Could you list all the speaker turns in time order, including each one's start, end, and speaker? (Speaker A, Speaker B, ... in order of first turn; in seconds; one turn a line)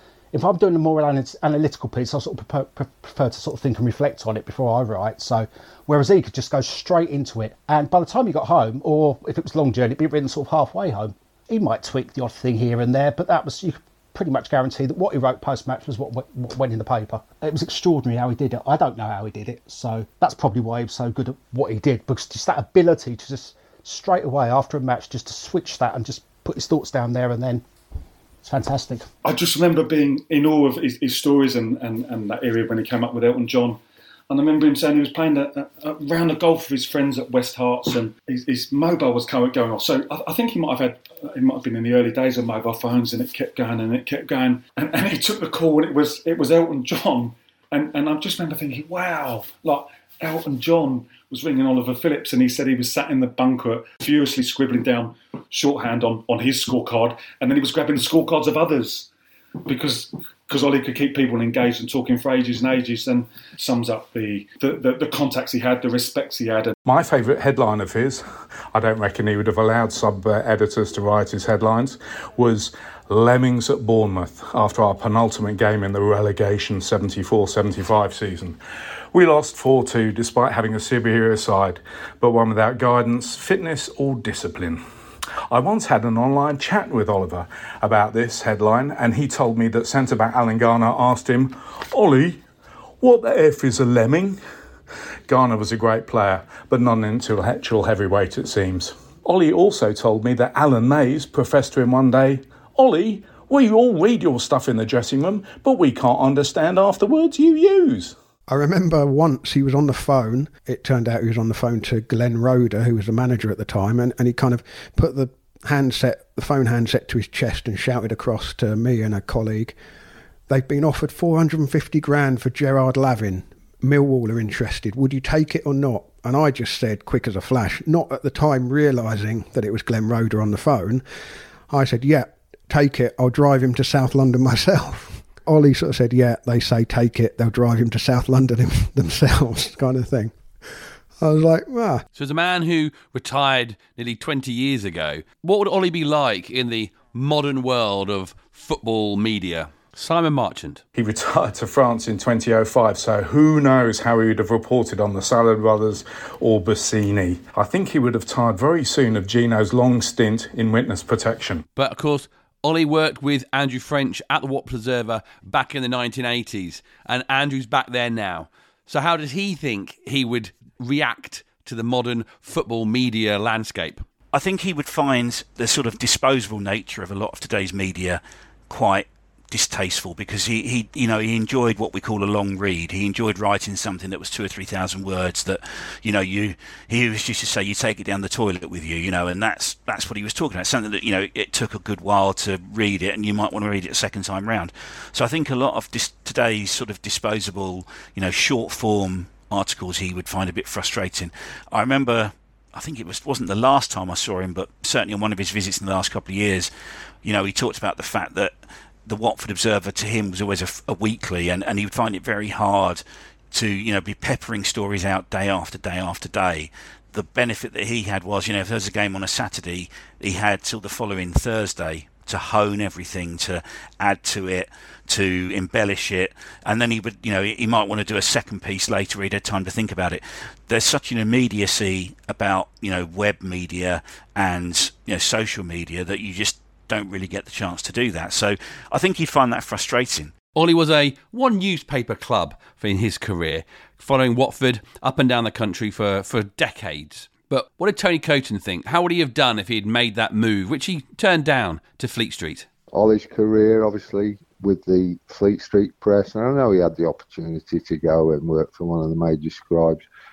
Speaker A: 0.3-27.6
Speaker A: 28.4-29.1
Speaker B: 29.2-59.1
Speaker B: 59.6-66.8
Speaker C: 66.9-78.6
Speaker C: 79.1-84.8
Speaker C: 85.5-92.4
Speaker C: 93.0-94.4
Speaker C: 95.3-108.2
Speaker D: 108.5-119.8
Speaker D: 120.5-131.0
Speaker D: 131.7-140.3
Speaker D: 141.2-142.1
Speaker E: 142.2-150.8
Speaker C: 150.9-161.7
Speaker E: 161.8-174.0
Speaker F: 174.3-206.7
Speaker F: 207.2-208.5
Speaker F: 209.1-240.3
Speaker E: 240.6-252.7
Speaker G: 252.9-260.0